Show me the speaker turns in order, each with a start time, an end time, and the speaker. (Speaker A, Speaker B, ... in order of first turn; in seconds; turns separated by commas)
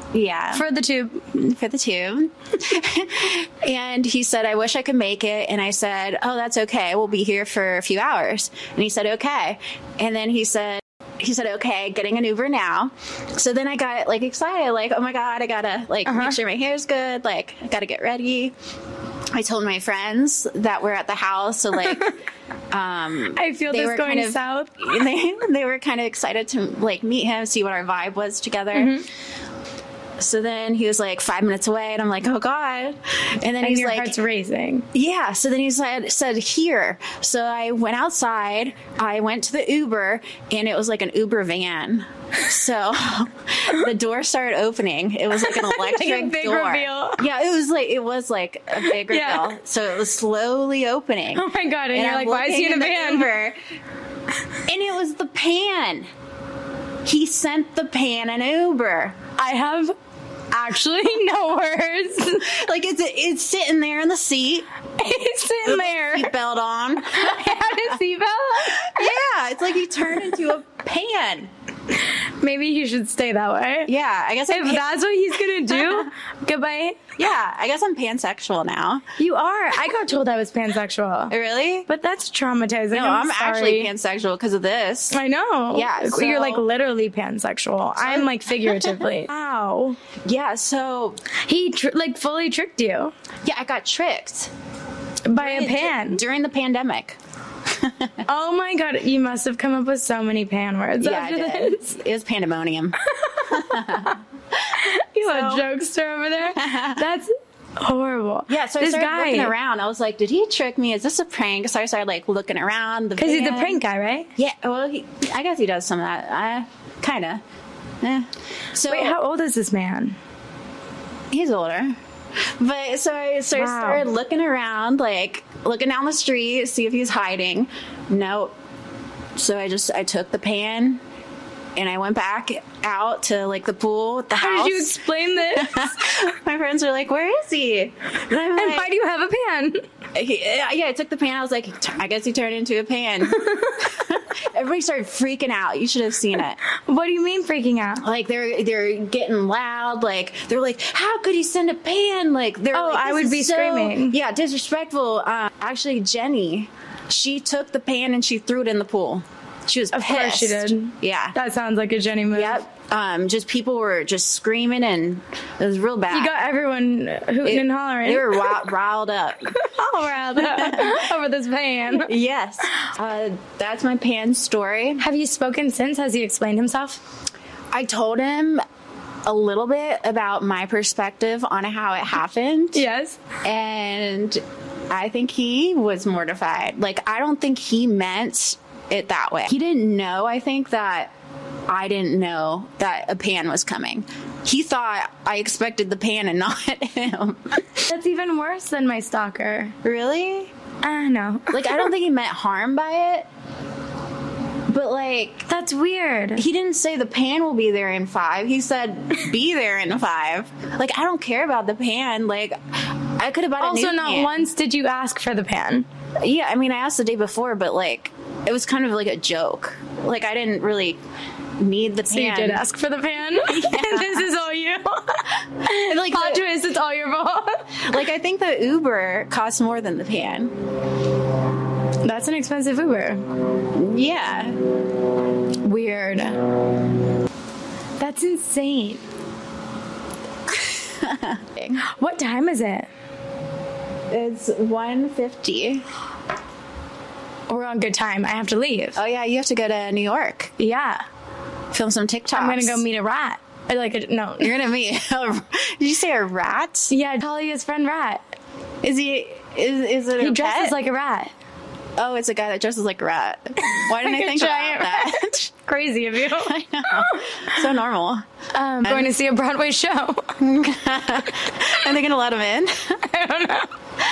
Speaker A: 0.1-0.7, Speaker B: 0.5-1.3, Speaker A: 1.3-18.6, Speaker B: 16.1-16.4, Speaker A: 19.3-22.1, Speaker B: 21.8-22.1, Speaker A: 22.7-29.0, Speaker B: 23.3-24.9, Speaker B: 28.7-29.1, Speaker A: 30.2-34.2, Speaker B: 33.6-34.9, Speaker A: 34.9-53.6, Speaker B: 45.4-47.2, Speaker B: 48.8-49.5, Speaker B: 51.4-53.3, Speaker A: 54.6-56.1, Speaker A: 57.0-59.2, Speaker B: 59.4-59.9, Speaker B: 60.5-62.6, Speaker A: 62.4-64.7, Speaker B: 65.0-66.3, Speaker A: 65.6-68.0, Speaker B: 67.1-69.1, Speaker A: 68.6-71.5, Speaker B: 71.9-73.9, Speaker A: 73.9-75.0, Speaker B: 74.5-77.1, Speaker A: 75.7-76.1, Speaker A: 77.2-79.1, Speaker B: 79.2-81.3, Speaker A: 81.3-81.9, Speaker B: 81.9-83.9, Speaker A: 82.9-85.2, Speaker B: 85.1-90.0, Speaker A: 85.7-86.7, Speaker A: 88.0-89.0, Speaker A: 90.2-91.2, Speaker B: 91.4-93.1, Speaker A: 93.5-94.5, Speaker B: 95.3-96.2, Speaker A: 95.4-98.2, Speaker B: 98.3-102.0, Speaker A: 101.0-105.7, Speaker B: 103.0-104.2, Speaker B: 104.7-109.5, Speaker A: 106.4-107.1, Speaker A: 108.5-113.8, Speaker B: 113.2-114.3, Speaker A: 114.4-117.4, Speaker A: 118.0-119.2, Speaker B: 118.9-120.2, Speaker A: 121.3-128.6, Speaker B: 123.5-124.0, Speaker A: 129.4-131.0, Speaker A: 131.8-138.9, Speaker B: 134.3-136.1, Speaker B: 138.5-139.9, Speaker A: 140.1-146.6, Speaker B: 143.4-143.9, Speaker B: 146.7-148.1, Speaker A: 148.0-161.4, Speaker B: 152.7-154.2, Speaker B: 159.9-162.7, Speaker A: 162.3-166.3, Speaker B: 166.1-168.6, Speaker A: 167.4-169.7, Speaker B: 169.5-172.1, Speaker A: 170.3-171.1, Speaker A: 171.9-175.0, Speaker B: 175.0-177.0, Speaker A: 177.7-178.6, Speaker A: 179.2-182.8, Speaker B: 182.8-183.2, Speaker A: 183.4-191.1, Speaker A: 191.7-197.8, Speaker B: 197.8-199.8, Speaker A: 199.8-200.5, Speaker B: 200.8-201.9, Speaker A: 201.5-203.3, Speaker A: 204.7-205.5, Speaker B: 205.5-206.4, Speaker A: 206.4-214.4, Speaker B: 213.6-215.9, Speaker A: 216.2-221.0, Speaker A: 221.6-222.6, Speaker B: 222.1-227.9, Speaker A: 223.4-224.3, Speaker A: 225.6-226.5, Speaker A: 227.8-230.6, Speaker B: 232.0-233.2, Speaker A: 233.7-234.7, Speaker B: 235.6-236.6, Speaker B: 238.0-239.0, Speaker A: 240.5-241.8, Speaker B: 241.8-242.9, Speaker A: 244.1-245.9, Speaker B: 247.5-249.0, Speaker A: 249.0-250.5, Speaker B: 250.6-251.0, Speaker A: 251.7-252.8, Speaker B: 252.3-254.5, Speaker A: 254.4-256.9, Speaker B: 256.9-258.4, Speaker A: 258.8-260.8, Speaker B: 260.2-261.3, Speaker A: 262.0-265.5, Speaker B: 263.6-267.5, Speaker A: 266.3-268.3, Speaker B: 268.5-270.4, Speaker A: 268.9-269.1, Speaker A: 270.4-273.0, Speaker B: 273.0-273.7